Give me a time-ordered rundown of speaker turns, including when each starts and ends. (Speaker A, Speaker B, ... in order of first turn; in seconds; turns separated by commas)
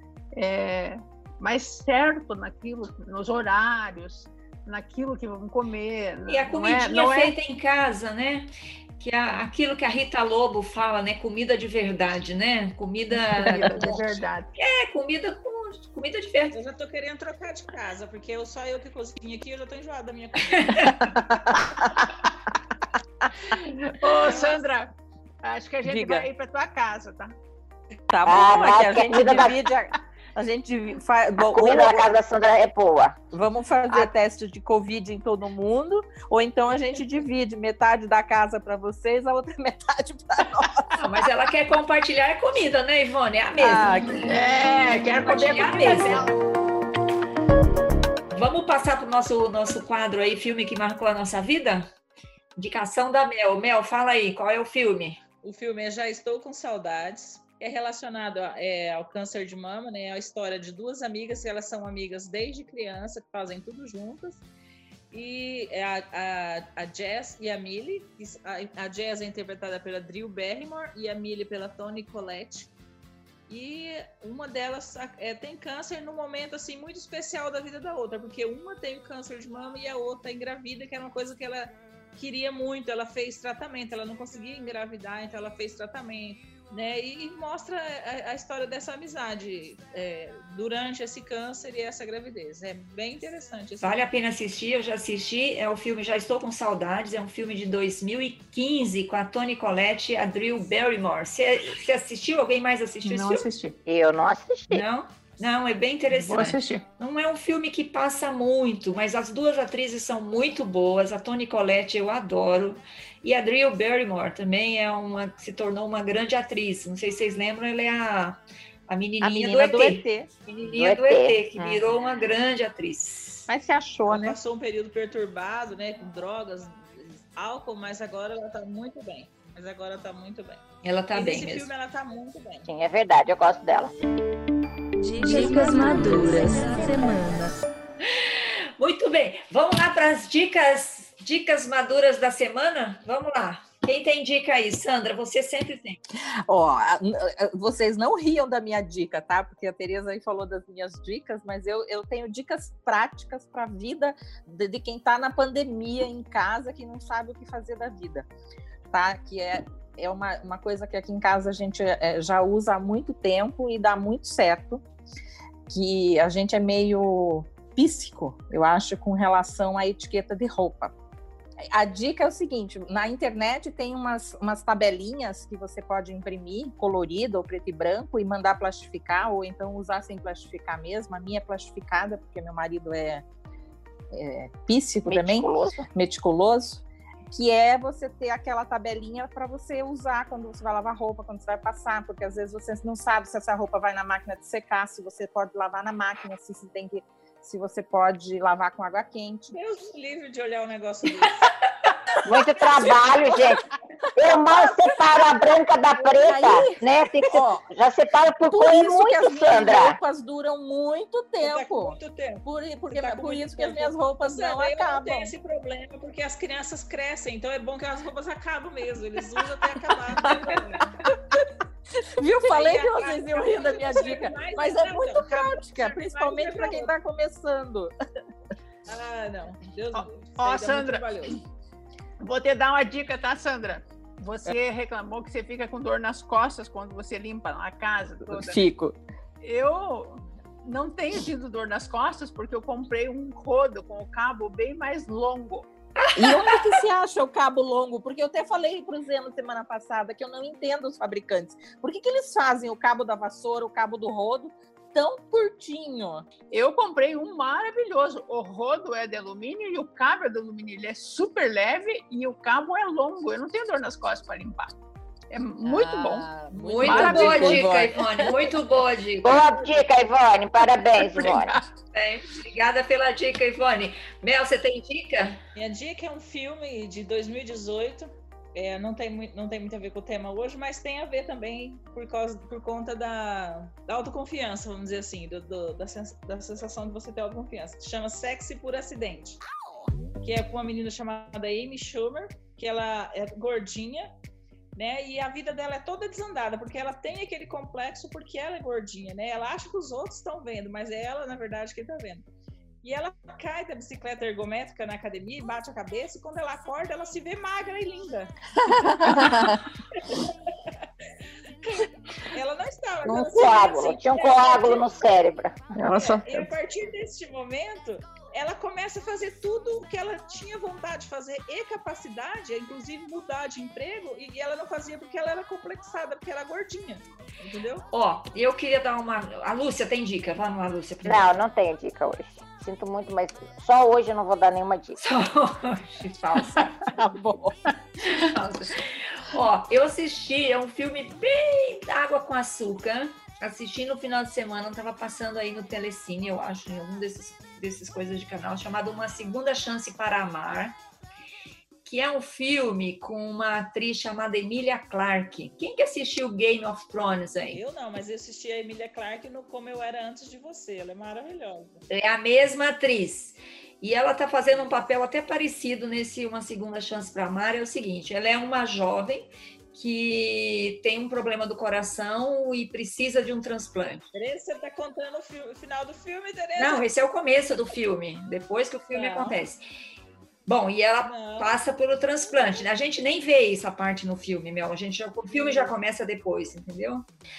Speaker A: 0.3-7.3, Speaker B: 6.3-13.9, Speaker A: 13.4-14.5, Speaker C: 13.6-14.0, Speaker B: 14.6-16.6, Speaker D: 16.5-20.9, Speaker B: 20.5-21.0, Speaker C: 21.1-22.1, Speaker A: 23.5-27.3, Speaker C: 25.8-26.3, Speaker C: 28.1-32.1, Speaker E: 28.2-29.6, Speaker E: 31.4-33.2, Speaker C: 33.3-41.0, Speaker B: 41.0-44.3, Speaker C: 43.6-44.3, Speaker A: 44.2-46.3, Speaker B: 45.2-46.3, Speaker B: 48.3-51.9, Speaker B: 52.5-55.2, Speaker D: 55.4-64.4, Speaker D: 65.1-72.7, Speaker D: 73.5-94.0, Speaker B: 93.8-103.5, Speaker A: 103.0-103.8, Speaker E: 103.8-104.8, Speaker B: 104.7-123.5, Speaker A: 106.1-106.8, Speaker C: 119.2-120.3, Speaker E: 120.7-121.8, Speaker C: 123.5-124.4, Speaker D: 124.1-132.7, Speaker B: 130.8-131.7, Speaker E: 132.7-133.9, Speaker F: 135.0-137.5, Speaker B: 138.1-146.0, Speaker C: 146.5-158.3, Speaker C: 158.9-164.8, Speaker C: 165.7-170.9, Speaker C: 171.7-183.2, Speaker C: 184.1-199.6, Speaker E: 185.1-185.9, Speaker D: 199.5-201.5, Speaker E: 202.2-203.6, Speaker E: 204.2-210.0, Speaker C: 204.2-205.0, Speaker C: 205.9-207.6, Speaker C: 208.5-215.3, Speaker D: 211.4-221.0, Speaker C: 220.1-221.4, Speaker C: 222.0-227.9, Speaker D: 222.3-226.9, Speaker D: 228.8-231.4, Speaker A: 229.9-231.4, Speaker A: 232.2-238.6, Speaker C: 238.3-239.0, Speaker A: 239.4-245.7, Speaker B: 245.9-246.8, Speaker C: 246.2-256.2, Speaker A: 256.5-264.7, Speaker A: 265.3-267.7, Speaker C: 265.6-268.5, Speaker B: 266.5-269.4, Speaker E: 269.2-271.6, Speaker A: 271.0-271.6, Speaker B: 271.9-275.4, Speaker D: 275.5-289.4, Speaker D: 290.2-294.1, Speaker D: 294.8-302.2, Speaker D: 302.8-308.3, Speaker C: 308.6-309.6, Speaker D: 309.0-309.4, Speaker D: 310.0-310.7, Speaker D: 312.3-314.9, Speaker E: 313.0-315.7, Speaker C: 315.8-316.5, Speaker D: 315.9-327.9, Speaker B: 327.9-331.3, Speaker E: 331.0-335.0, Speaker B: 335.0-336.9, Speaker C: 336.9-337.6, Speaker B: 338.0-350.8, Speaker B: 351.9-357.6, Speaker D: 357.5-361.8, Speaker B: 361.9-374.1, Speaker D: 374.1-376.8, Speaker B: 376.6-379.6, Speaker D: 378.9-379.4, Speaker B: 380.4-387.1, Speaker D: 381.0-381.5, Speaker D: 382.3-382.6, Speaker D: 385.3-385.8